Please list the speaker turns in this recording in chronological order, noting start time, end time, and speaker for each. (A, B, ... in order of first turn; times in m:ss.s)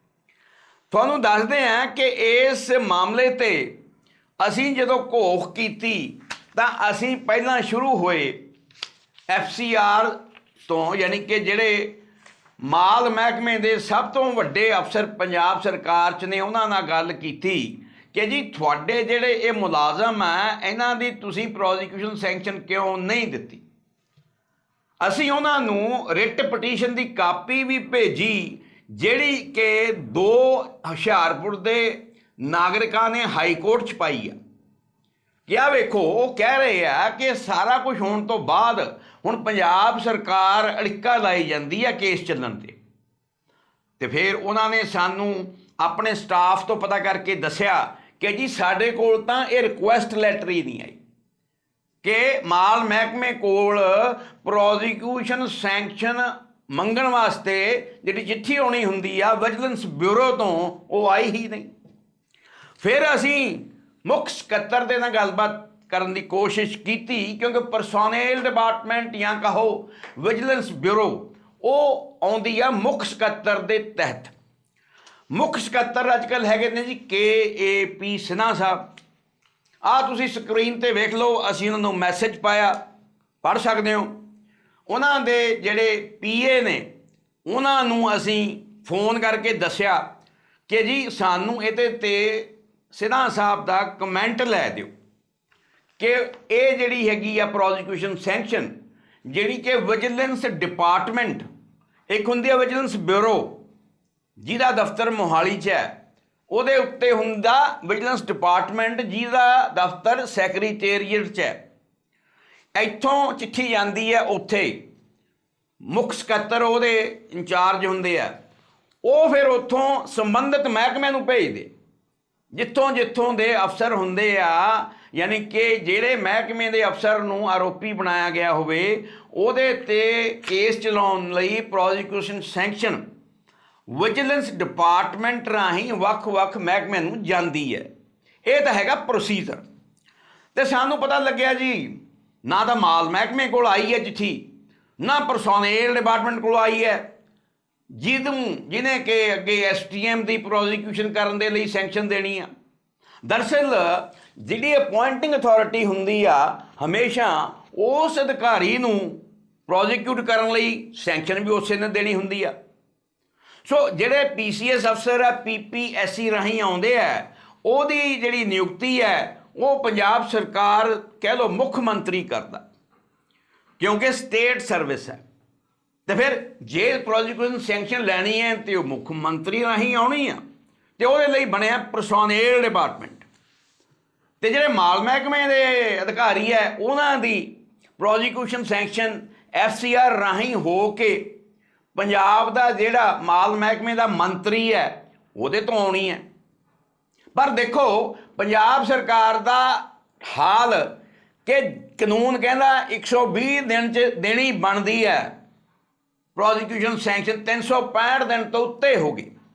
0:00.9-0:03.7 A
0:04.4-0:08.4 A
0:09.3-0:11.9 A
0:12.6-0:23.6 A
0:25.0-0:34.3 A
0:35.5-0:42.7 A
0:44.0-0:51.0 A
0:52.0-1:01.7 A
1:02.8-1:14.3 A
1:15.3-1:18.9 A
1:19.8-1:22.8 A
1:23.4-1:24.1 A
1:24.9-1:26.8 A
1:27.5-1:30.0 A
1:30.7-1:34.9 A
1:36.0-1:38.7 A
1:39.2-1:41.4 A
1:42.1-1:43.6 A
1:44.4-1:45.9 A
1:46.5-1:51.6 A
1:52.7-1:54.8 A
1:55.8-1:58.3 A
1:59.0-2:01.7 A
2:02.5-2:13.0 A
2:13.9-2:17.9 A
2:18.4-2:19.6 A
2:20.5-2:24.4 A
2:25.0-2:27.0 A
2:28.0-2:32.5 A
2:33.2-2:42.5 A
2:43.6-2:52.6 A
2:53.8-2:55.2 A
2:56.1-3:00.4 A
3:01.0-3:03.2 A
3:04.4-3:11.3 A
3:11.9-3:16.2 A
3:17.3-3:20.9 A
3:21.4-3:25.3 A
3:26.3-3:29.3 A